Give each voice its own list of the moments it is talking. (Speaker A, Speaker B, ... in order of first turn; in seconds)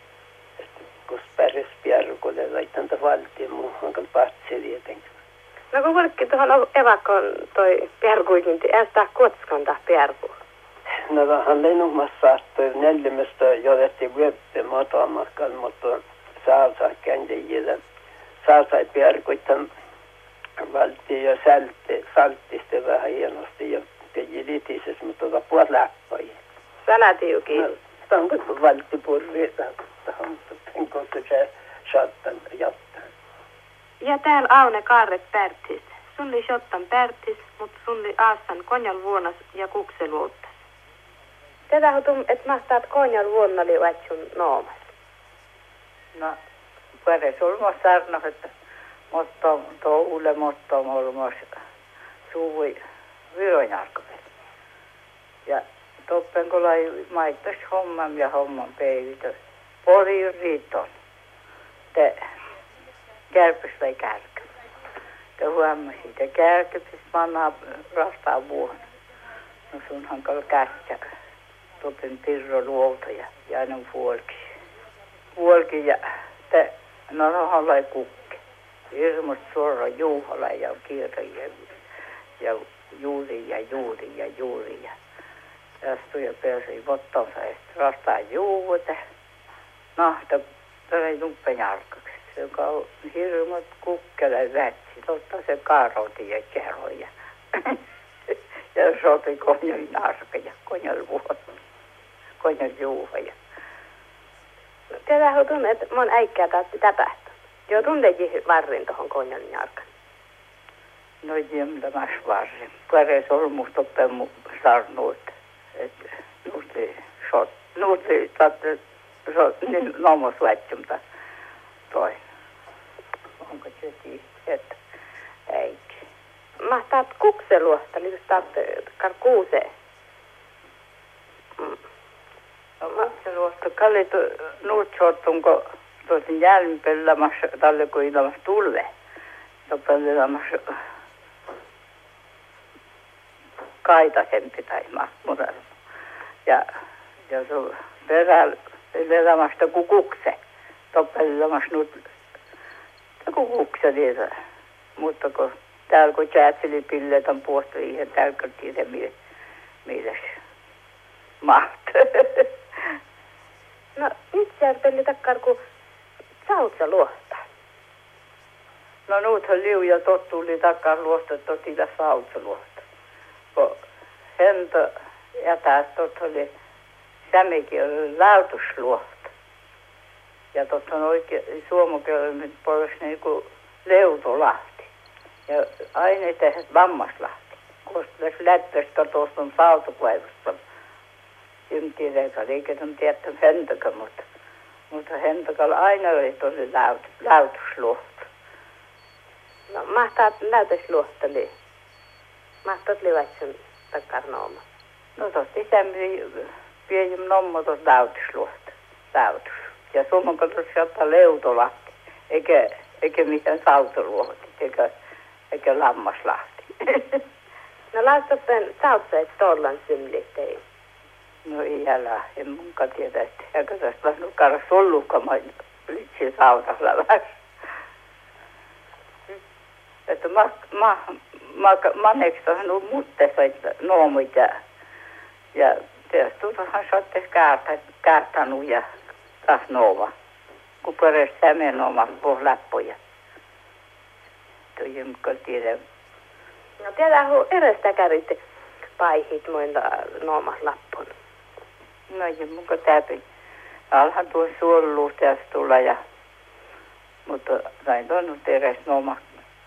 Speaker A: 0.6-5.0, 11.1-17.8, 18.4-19.7, 20.6-26.3, 27.5-33.0
Speaker B: 5.7-10.3, 26.9-27.7, 34.0-40.5, 41.7-44.8, 105.0-109.8, 126.6-129.7, 163.9-165.6, 166.4-167.4, 199.7-201.5, 202.6-204.6, 217.9-220.6, 246.8-248.4, 249.0-251.1
Speaker C: 47.0-48.5, 49.1-51.4, 52.3-52.8, 53.3-54.3, 55.5-60.9, 61.9-62.2, 63.3-64.5, 65.4-68.8, 69.7-71.0, 71.8-74.4, 75.3-78.4, 78.9-81.5, 82.4-84.9, 85.8-89.0, 90.0-97.8, 98.7-101.4, 102.4-103.3, 111.2-115.9, 116.4-121.0, 121.9-122.2, 123.4-124.8, 125.5-126.0, 132.8-138.9, 139.7-140.6, 143.8-145.6, 147.3-150.4, 150.9-152.0, 153.2-154.3, 154.9-159.1, 159.8-160.3, 161.4-162.5, 169.1-172.8, 173.5-173.8, 174.4-176.5, 177.3-179.3, 180.5-184.9, 185.5-190.6, 191.7-194.2, 194.9-198.2, 205.2-214.9, 215.5-217.2, 221.4-227.3, 230.1-234.6, 235.5-238.8, 239.4-240.1, 240.8-243.0, 244.8-245.8, 252.1-253.2, 253.9-256.0, 257.2-259.2